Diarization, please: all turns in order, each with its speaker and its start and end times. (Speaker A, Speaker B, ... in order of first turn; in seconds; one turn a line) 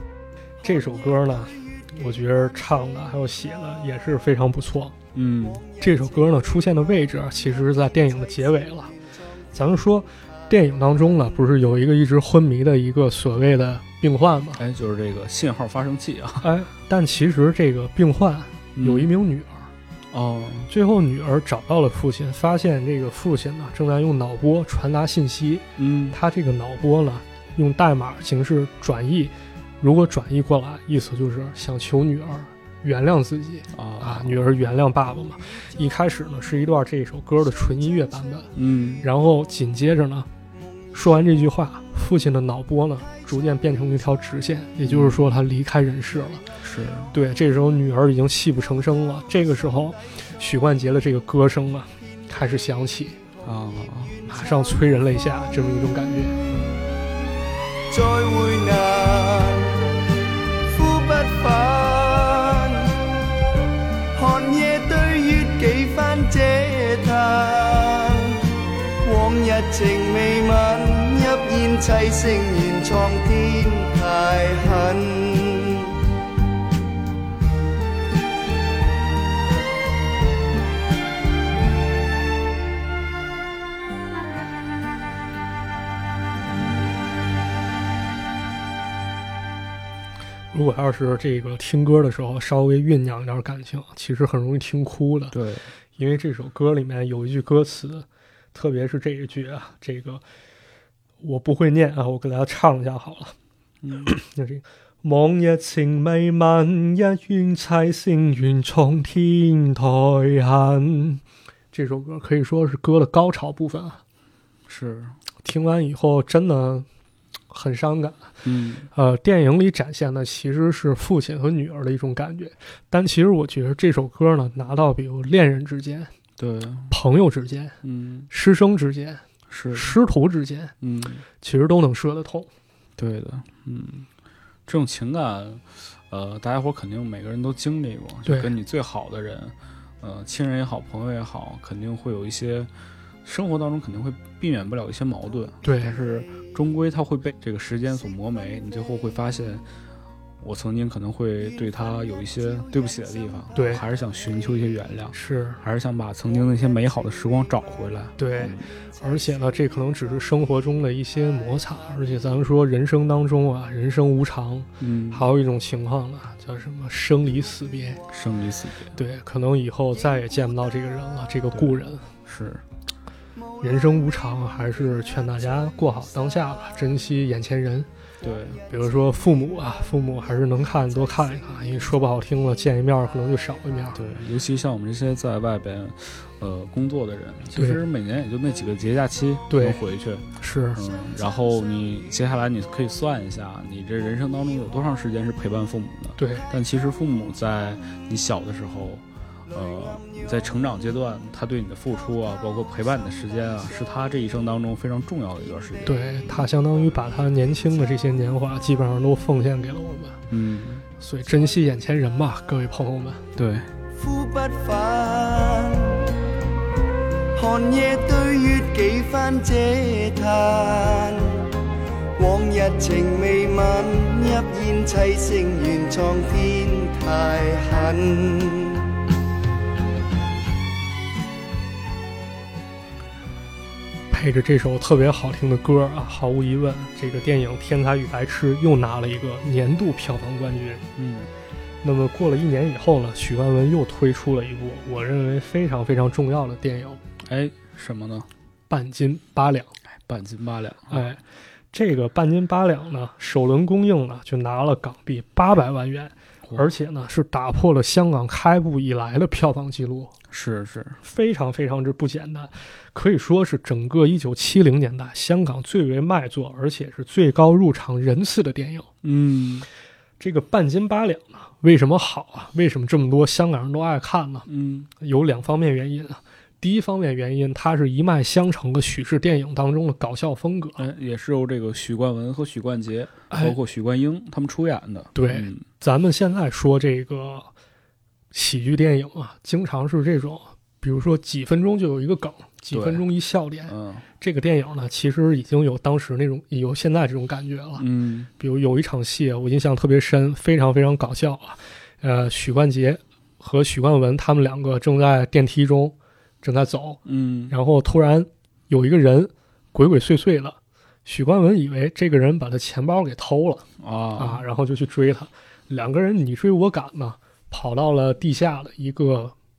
Speaker A: 0.6-5.0
Speaker B: 5.1-5.6
Speaker A: 5.8-8.9
Speaker A: 9.5-14.6
Speaker B: 14.6-16.5
Speaker A: 16.4-19.7
Speaker B: 18.8-19.1
Speaker B: 20.1-20.7
Speaker A: 20.7-40.3
Speaker B: 25.8-26.2
Speaker B: 33.7-34.4
Speaker B: 38.5-39.0
Speaker A: 40.9-46.5
Speaker B: 44.8-45.3
Speaker B: 46.6-47.1
Speaker A: 47.1-53.2
Speaker B: 53.4-54.2
Speaker A: 54.3-56.3
Speaker C: 57.9-59.9
Speaker C: 60.7-63.0
Speaker C: 64.1-68.5
Speaker C: 69.0-75.9
Speaker A: 90.5-95.3
Speaker B: 95.3-95.6
Speaker A: 96.0-100.2
Speaker A: 101.2-103.3
Speaker B: 103.8-104.1
Speaker A: 104.0-114.0
Speaker B: 114.7-115.2
Speaker A: 115.4-116.9
Speaker A: 117.5-118.3
Speaker B: 118.4-118.9
Speaker A: 118.9-126.1
Speaker B: 126.4-126.9
Speaker A: 126.9-127.8
Speaker B: 127.8-128.3
Speaker A: 128.3-129.2
Speaker B: 129.5-129.9
Speaker A: 129.7-130.7
Speaker B: 130.8-131.2
Speaker A: 131.4-132.5
Speaker B: 133.0-134.1
Speaker B: 134.7-142.7
Speaker A: 138.2-138.5
Speaker B: 143.2-149.6
Speaker A: 145.6-145.9
Speaker B: 150.4-158.7
Speaker A: 153.5-153.8
Speaker A: 155.1-155.6
Speaker A: 158.2-168.0
Speaker B: 164.8-165.3
Speaker B: 168.1-168.9
Speaker A: 168.9-172.0
Speaker B: 171.5-172.6
Speaker A: 173.6-177.9
Speaker B: 178.2-178.6
Speaker A: 178.7-184.0
Speaker B: 183.9-206.5
Speaker A: 187.5-187.8
Speaker A: 189.5-189.8
Speaker A: 190.4-190.8
Speaker A: 196.2-196.4
Speaker A: 205.8-210.2
Speaker B: 210.3-210.8
Speaker A: 211.0-213.2
Speaker B: 213.3-213.7
Speaker C: 213.9-216.1
Speaker C: 217.3-221.5
Speaker C: 222.2-228.8
Speaker A: 234.1-240.8
Speaker B: 240.9-241.3
Speaker A: 241.8-247.0
Speaker B: 247.2-248.3
Speaker A: 248.7-249.7
Speaker B: 249.9-251.1
Speaker A: 250.9-251.2
Speaker A: 251.7-260.1
Speaker B: 260.3-261.0
Speaker A: 261.0-268.9
Speaker B: 269.0-269.6
Speaker A: 270.2-274.4
Speaker B: 274.5-274.9
Speaker A: 275.0-280.8
Speaker B: 280.8-285.6
Speaker A: 283.3-283.6
Speaker A: 285.1-287.5
Speaker A: 288.3-297.8
Speaker B: 292.7-293.1
Speaker B: 293.7-294.0
Speaker B: 297.8-298.3
Speaker A: 298.4-313.6
Speaker B: 307.1-307.5
Speaker B: 313.8-314.4
Speaker A: 314.2-319.3